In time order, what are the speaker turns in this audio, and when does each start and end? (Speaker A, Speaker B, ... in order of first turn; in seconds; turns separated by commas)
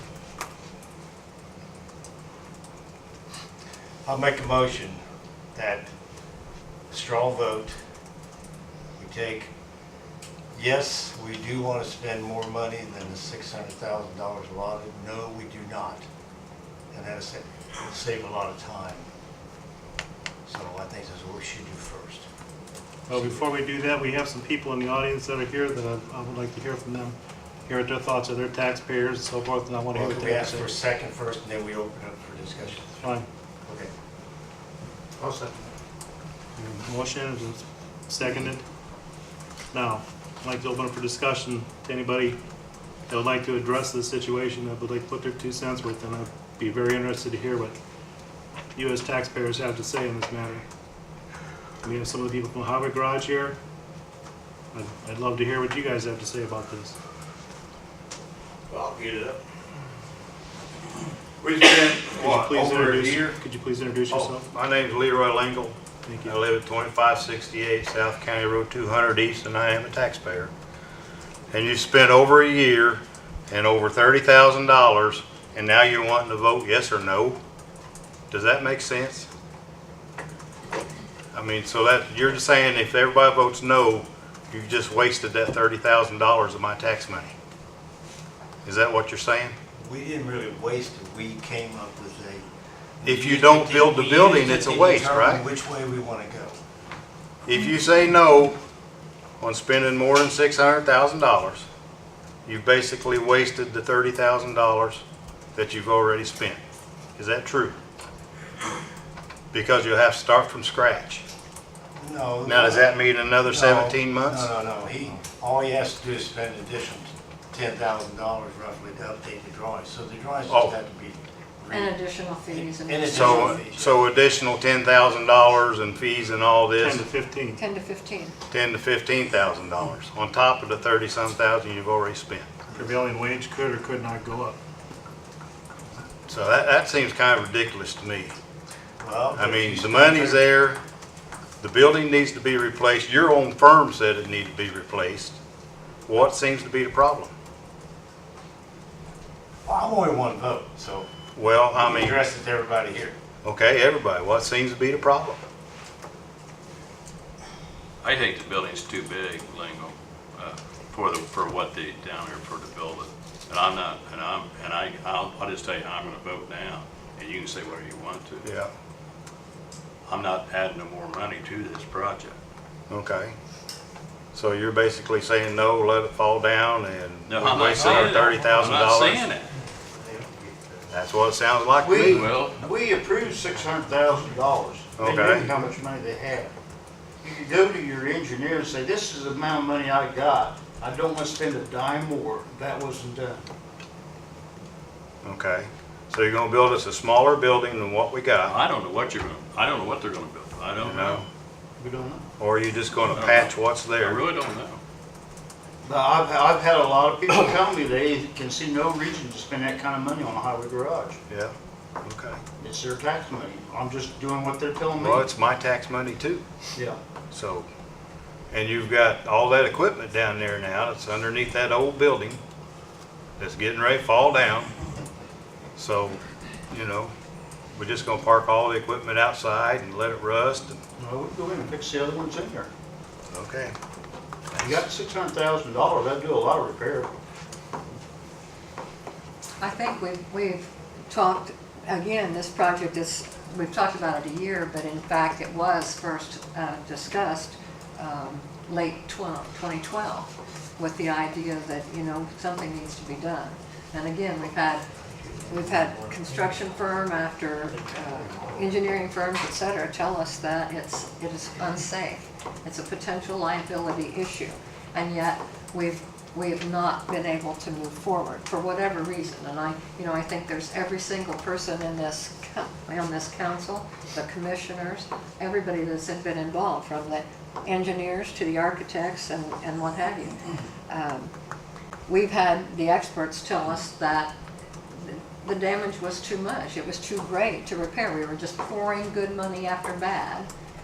Speaker A: 4.0-5.0, Speaker A: 5.5-5.9, Speaker A: 6.9-7.8, Speaker A: 9.0-9.5, Speaker A: 10.5-16.1, Speaker A: 16.9-19.1, Speaker A: 20.4-22.3, Speaker B: 23.1-27.1, Speaker A: 23.1-23.4, Speaker B: 27.7-30.7, Speaker A: 29.9-33.0, Speaker B: 33.0-33.3, Speaker A: 33.6-33.9, Speaker C: 35.2-35.7, Speaker B: 36.6-38.6, Speaker B: 39.7-42.4, Speaker B: 43.1-47.8, Speaker B: 48.8-50.6, Speaker B: 51.8-53.5, Speaker B: 54.7-57.0, Speaker D: 58.7-59.4, Speaker D: 61.4-63.4, Speaker B: 62.2-64.5, Speaker D: 64.1-70.5, Speaker B: 66.0-66.3, Speaker D: 71.5-77.3, Speaker D: 78.3-79.3, Speaker D: 81.3-87.3, Speaker D: 88.6-89.5, Speaker A: 89.8-92.5, Speaker A: 93.0-96.6, Speaker D: 93.0-95.4, Speaker D: 97.5-98.5, Speaker D: 99.4-101.7, Speaker D: 102.5-105.0, Speaker D: 105.5-106.6, Speaker D: 107.2-107.8, Speaker D: 109.5-111.2, Speaker A: 112.0-122.0, Speaker D: 112.5-114.5, Speaker D: 120.5-120.7, Speaker E: 121.7-123.6, Speaker A: 122.5-124.1, Speaker D: 123.1-127.0, Speaker B: 126.8-127.6, Speaker E: 127.6-128.3, Speaker D: 128.5-132.6, Speaker B: 132.7-134.6, Speaker D: 136.3-138.3, Speaker A: 139.0-140.4, Speaker D: 139.3-140.8, Speaker D: 141.6-145.4, Speaker D: 146.1-147.3, Speaker A: 149.7-151.1, Speaker D: 151.3-152.2, Speaker A: 151.7-153.2, Speaker D: 153.4-155.4, Speaker F: 158.0-168.5, Speaker D: 168.4-168.7, Speaker F: 170.1-172.4, Speaker D: 172.9-173.3, Speaker D: 174.3-179.3, Speaker F: 177.3-179.5, Speaker A: 180.0-180.7, Speaker D: 180.9-182.3, Speaker C: 181.8-186.5, Speaker F: 182.1-182.6, Speaker D: 184.9-185.5, Speaker C: 187.2-193.4, Speaker D: 195.2-198.6, Speaker F: 198.4-201.2, Speaker D: 200.8-201.3, Speaker C: 201.8-202.2, Speaker D: 202.4-204.3, Speaker F: 203.1-204.8, Speaker C: 205.8-211.2, Speaker D: 212.0-212.4, Speaker C: 212.6-215.3, Speaker D: 214.9-216.4, Speaker D: 217.3-217.7, Speaker D: 218.5-222.4, Speaker D: 223.4-224.7, Speaker D: 225.8-227.1, Speaker D: 227.7-230.8, Speaker C: 231.0-232.7, Speaker D: 233.3-233.7, Speaker D: 234.5-234.8, Speaker C: 234.6-237.1, Speaker E: 239.6-254.8, Speaker A: 255.2-256.8, Speaker E: 255.4-281.3, Speaker A: 257.9-258.7, Speaker E: 282.1-284.3, Speaker E: 284.9-290.5